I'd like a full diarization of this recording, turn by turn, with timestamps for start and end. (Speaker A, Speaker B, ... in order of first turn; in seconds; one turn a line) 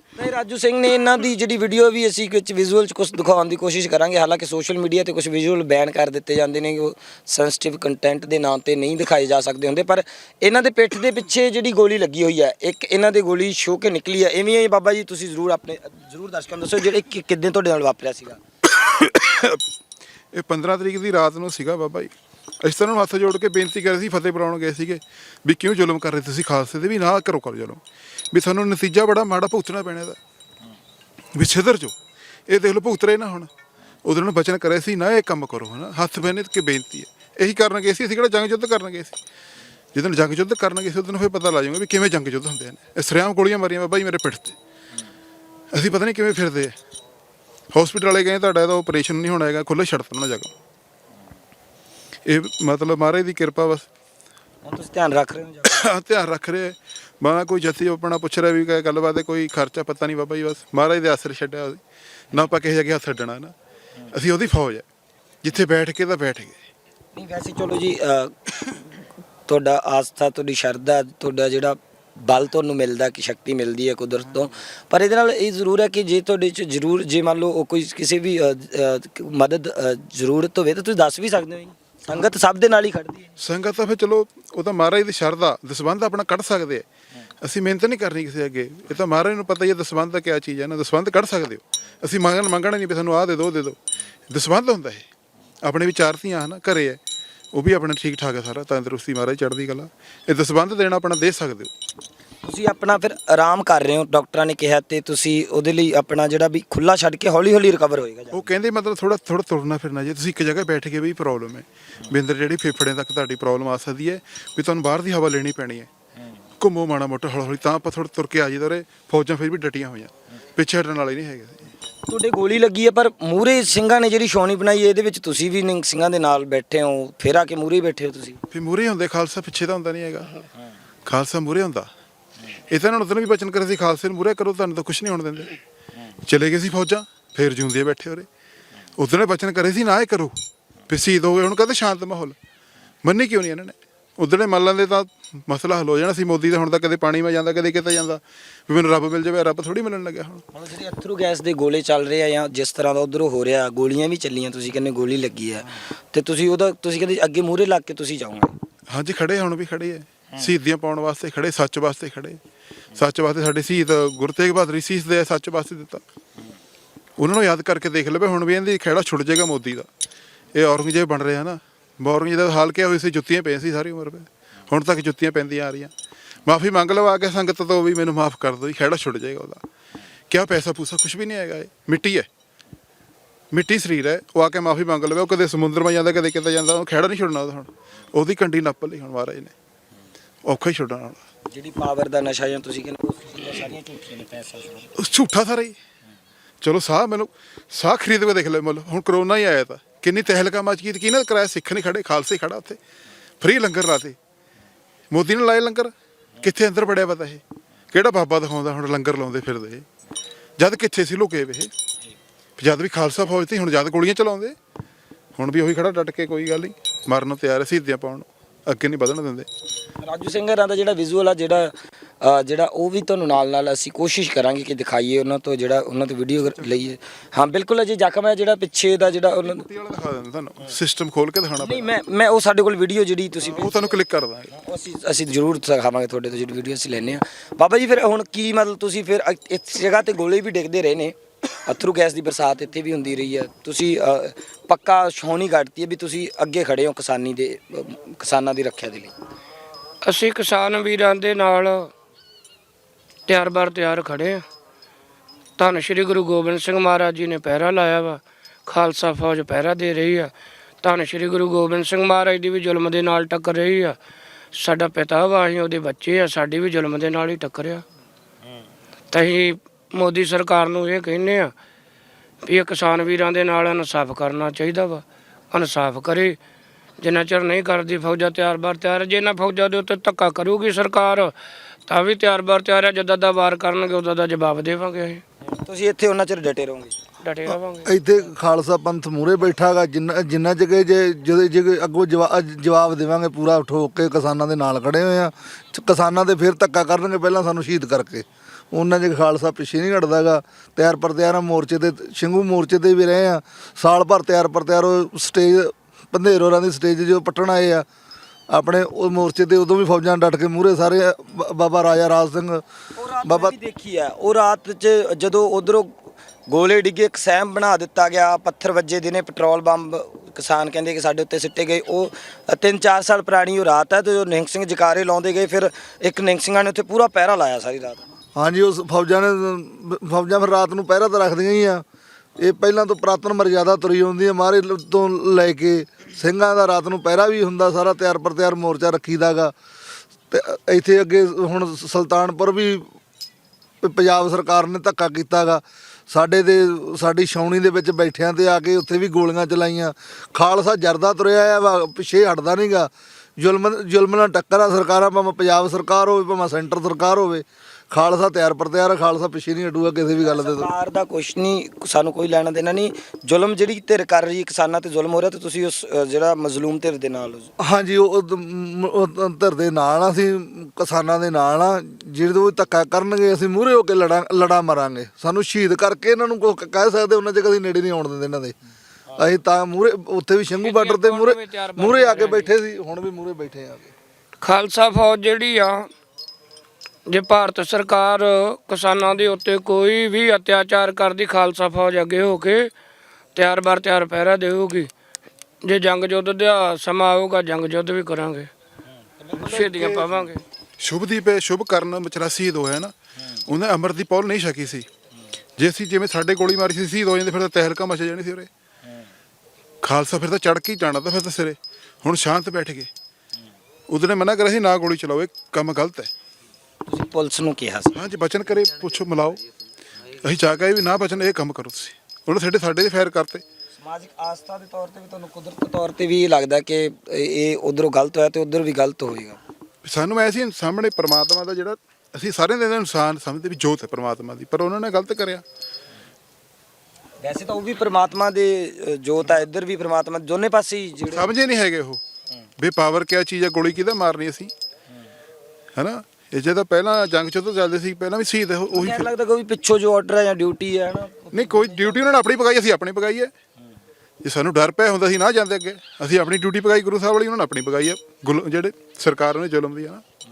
Speaker A: 0.2-18.4
Speaker B: 18.7-19.6
Speaker B: 20.3-27.8
Speaker B: 28.3-30.2
Speaker B: 31.3-31.9
Speaker B: 32.5-33.5
Speaker B: 34.0-39.2
Speaker B: 39.9-44.5
Speaker B: 45.7-46.7
Speaker B: 47.7-50.5
Speaker B: 52.2-53.9
Speaker A: 54.6-55.9
Speaker B: 55.6-61.8
Speaker B: 62.3-63.5
Speaker B: 64.1-64.8
Speaker B: 65.4-66.6
Speaker A: 67.1-83.3
Speaker B: 83.4-86.8
Speaker B: 87.4-93.8
Speaker B: 94.3-95.0
Speaker B: 95.6-97.0
Speaker B: 97.5-101.7
Speaker A: 102.4-108.5
Speaker B: 108.3-115.9
Speaker B: 116.6-121.7
Speaker A: 122.1-128.4
Speaker B: 128.5-130.3
Speaker B: 131.1-131.9
Speaker B: 132.7-135.5
Speaker B: 136.2-138.3
Speaker B: 139.0-140.3
Speaker B: 140.9-142.4
Speaker B: 143.0-150.4
Speaker A: 150.5-158.6
Speaker B: 158.9-162.4
Speaker B: 162.9-166.0
Speaker B: 167.2-169.9
Speaker B: 170.5-175.9
Speaker B: 176.4-179.6
Speaker B: 180.3-182.3
Speaker B: 183.5-189.5
Speaker B: 190.4-191.2
Speaker A: 191.5-194.9
Speaker B: 195.0-195.8
Speaker B: 196.6-202.8
Speaker B: 203.4-204.2
Speaker B: 205.1-209.8
Speaker B: 210.6-211.7
Speaker B: 212.6-214.5
Speaker B: 215.3-219.5
Speaker A: 220.0-229.6
Speaker B: 226.6-226.8
Speaker B: 229.4-231.9
Speaker A: 231.6-233.9
Speaker B: 233.4-234.5
Speaker A: 234.5-249.1
Speaker C: 250.0-251.9
Speaker C: 253.3-254.4
Speaker C: 255.6-264.0
Speaker C: 264.5-267.8
Speaker C: 269.1-271.5
Speaker C: 272.4-276.4
Speaker C: 277.0-281.3
Speaker C: 281.9-285.2
Speaker A: 285.5-286.9
Speaker C: 287.2-287.9
Speaker D: 287.5-307.9
Speaker D: 308.5-312.6
Speaker A: 313.0-315.9
Speaker D: 313.2-313.5
Speaker A: 316.5-328.0
Speaker D: 328.4-331.8
Speaker D: 332.4-339.5
Speaker D: 340.3-342.9
Speaker D: 343.8-360.7
Speaker A: 360.2-367.5
Speaker D: 367.6-378.6
Speaker D: 379.1-383.9
Speaker C: 380.6-382.5
Speaker C: 384.4-385.9
Speaker C: 387.1-392.7
Speaker C: 393.3-394.9
Speaker C: 395.6-398.5
Speaker A: 399.2-399.6
Speaker C: 399.4-400.4
Speaker B: 399.4-400.1
Speaker B: 400.8-402.9
Speaker B: 403.4-404.9
Speaker B: 405.6-408.5
Speaker B: 409.8-412.9
Speaker B: 413.9-416.1
Speaker A: 416.9-417.9
Speaker B: 417.9-419.4
Speaker B: 420.2-423.4
Speaker A: 423.8-429.4
Speaker B: 429.8-435.4
Speaker A: 437.2-441.2
Speaker B: 441.1-442.0
Speaker B: 442.6-444.5
Speaker B: 445.8-449.1
Speaker A: 448.7-452.1
Speaker B: 451.3-453.3
Speaker B: 454.2-460.0